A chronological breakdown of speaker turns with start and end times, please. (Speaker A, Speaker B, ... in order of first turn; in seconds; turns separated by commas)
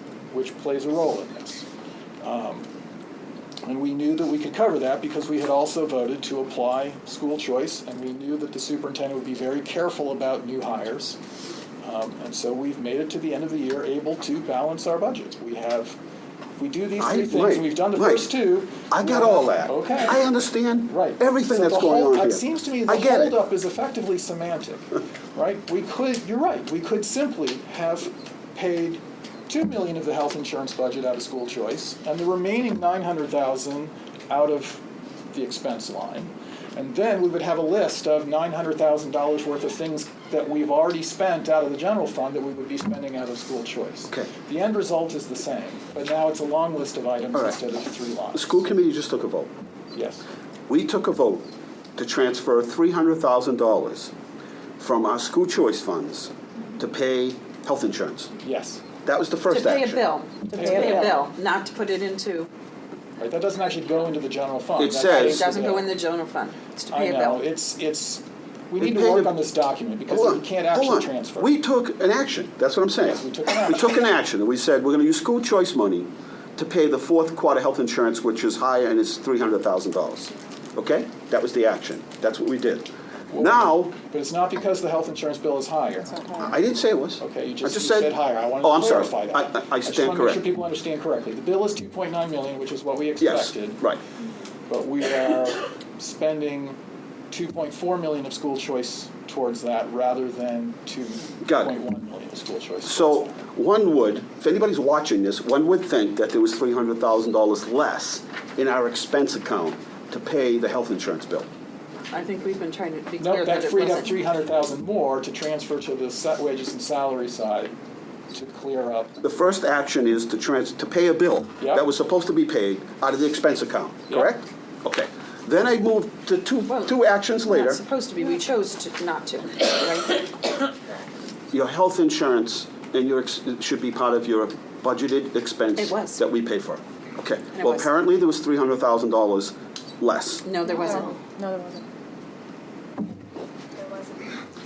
Speaker A: 0.3-1.6, Speaker A: 2.2-2.7, Speaker A: 3.6-11.2, Speaker A: 11.8-16.0, Speaker A: 16.6-20.2, Speaker B: 17.0-18.3, Speaker B: 18.9-23.3, Speaker A: 20.9-48.6, Speaker B: 48.3-49.5, Speaker A: 49.9-50.2, Speaker B: 50.7-51.4, Speaker B: 52.0-54.1, Speaker B: 54.8-58.3, Speaker A: 58.4-58.8, Speaker B: 59.0-60.0, Speaker C: 59.5-62.5, Speaker D: 60.5-61.2, Speaker A: 60.5-61.1, Speaker A: 63.2-65.9, Speaker B: 64.8-65.4, Speaker C: 65.1-67.4, Speaker A: 66.9-71.5, Speaker B: 68.8-69.4, Speaker B: 70.1-83.9, Speaker A: 73.0-74.0, Speaker A: 83.3-86.4, Speaker B: 86.4-90.4, Speaker A: 87.2-93.8, Speaker B: 93.2-94.0, Speaker A: 94.7-96.8, Speaker A: 97.3-103.4, Speaker B: 101.4-101.7, Speaker B: 102.8-111.5, Speaker C: 112.1-114.1, Speaker A: 113.2-117.7, Speaker A: 118.3-119.1, Speaker B: 119.2-127.8, Speaker A: 121.6-121.8, Speaker C: 126.7-126.9, Speaker C: 127.5-130.4, Speaker B: 131.5-140.5, Speaker C: 135.8-136.2, Speaker C: 137.6-137.9, Speaker C: 140.4-141.2, Speaker D: 140.6-141.8, Speaker D: 143.8-144.1